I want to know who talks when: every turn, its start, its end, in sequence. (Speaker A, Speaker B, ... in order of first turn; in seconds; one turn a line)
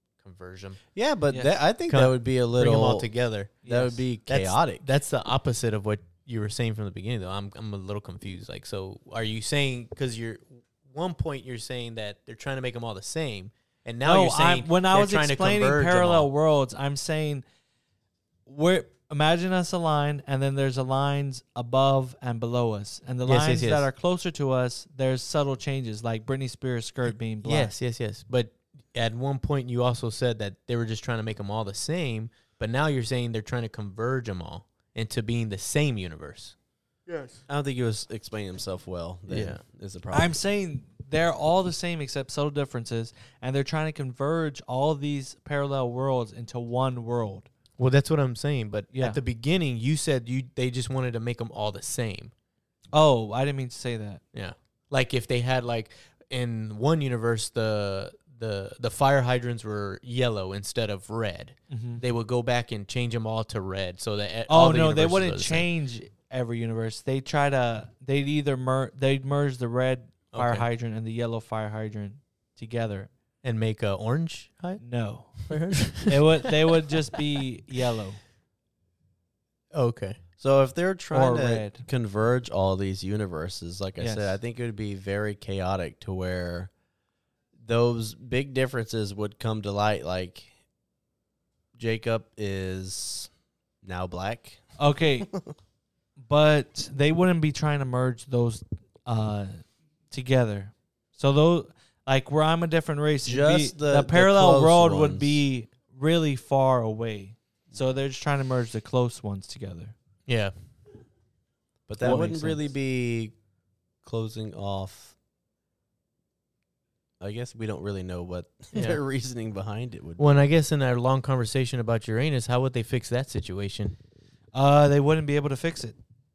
Speaker A: 0.2-0.8
Speaker B: 0.9-3.1
Speaker C: 1.3-1.6
Speaker A: 1.9-16.3
Speaker C: 3.6-3.9
Speaker B: 3.6-4.8
Speaker C: 14.0-17.4
Speaker C: 18.4-27.7
Speaker A: 23.2-23.9
Speaker A: 27.4-36.5
Speaker A: 37.1-37.3
Speaker B: 37.5-40.4
Speaker A: 39.3-39.6
Speaker C: 40.1-47.5
Speaker A: 47.8-52.3
Speaker C: 48.9-49.2
Speaker C: 52.9-54.2
Speaker A: 54.3-65.7
Speaker C: 61.7-62.0
Speaker C: 64.5-73.1
Speaker A: 70.3-70.7
Speaker A: 73.4-76.2
Speaker C: 74.8-78.2
Speaker A: 79.7-80.2
Speaker B: 80.4-86.7
Speaker C: 81.1-81.8
Speaker C: 84.0-84.4
Speaker B: 87.5-90.5
Speaker B: 91.7-93.3
Speaker B: 93.8-94.7
Speaker C: 94.8-95.3
Speaker B: 95.3-95.5
Speaker C: 96.2-109.9
Speaker B: 103.2-105.4
Speaker A: 110.2-110.5
Speaker B: 111.9-113.3
Speaker C: 112.0-112.6
Speaker A: 112.0-112.3
Speaker B: 114.0-115.2
Speaker B: 117.2-120.3
Speaker A: 118.7-119.0
Speaker A: 120.2-124.0
Speaker C: 124.5-126.0